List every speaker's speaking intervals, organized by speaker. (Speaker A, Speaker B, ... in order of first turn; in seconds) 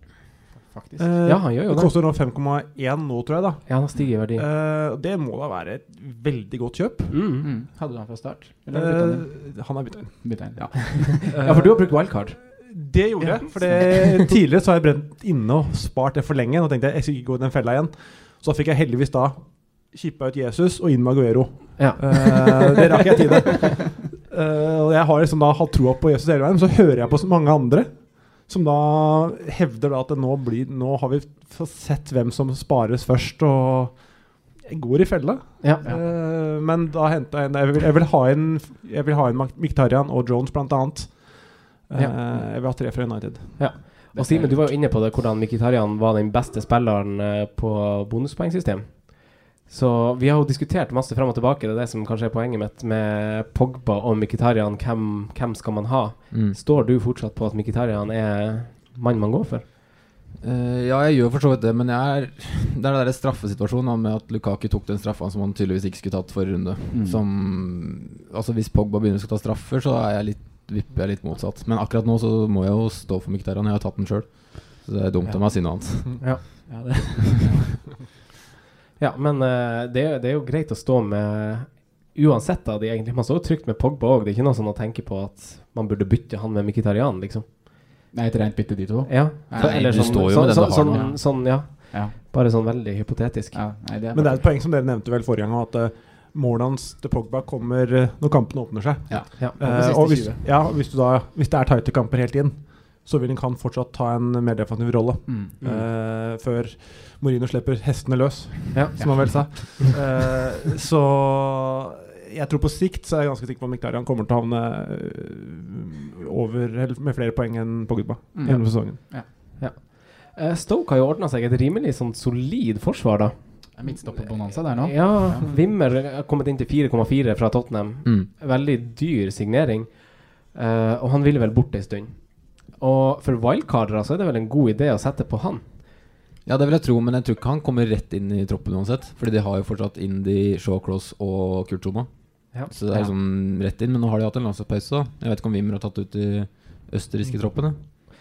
Speaker A: 0.6-1.1, 7.4-11.3, 13.2-13.8, 44.1-44.7, 66.9-67.2, 75.2-77.7, 88.1-92.1, 93.5-94.5, 99.1-100.4, 105.3-105.5, 109.0-109.3, 118.3-119.3, 123.8-125.5
Speaker B: 1.0-7.1, 8.7-10.6, 11.3-43.6, 94.1-119.0
Speaker C: 1.2-1.9, 3.7-4.4, 7.1-7.5, 11.0-12.4, 21.8-23.6, 43.6-59.6, 79.0-87.5, 89.1-93.7, 105.6-105.9, 108.7-109.3, 119.3-135.8, 142.5-142.9
Speaker D: 56.3-56.6, 60.4-76.3, 89.5-91.2, 136.4-147.8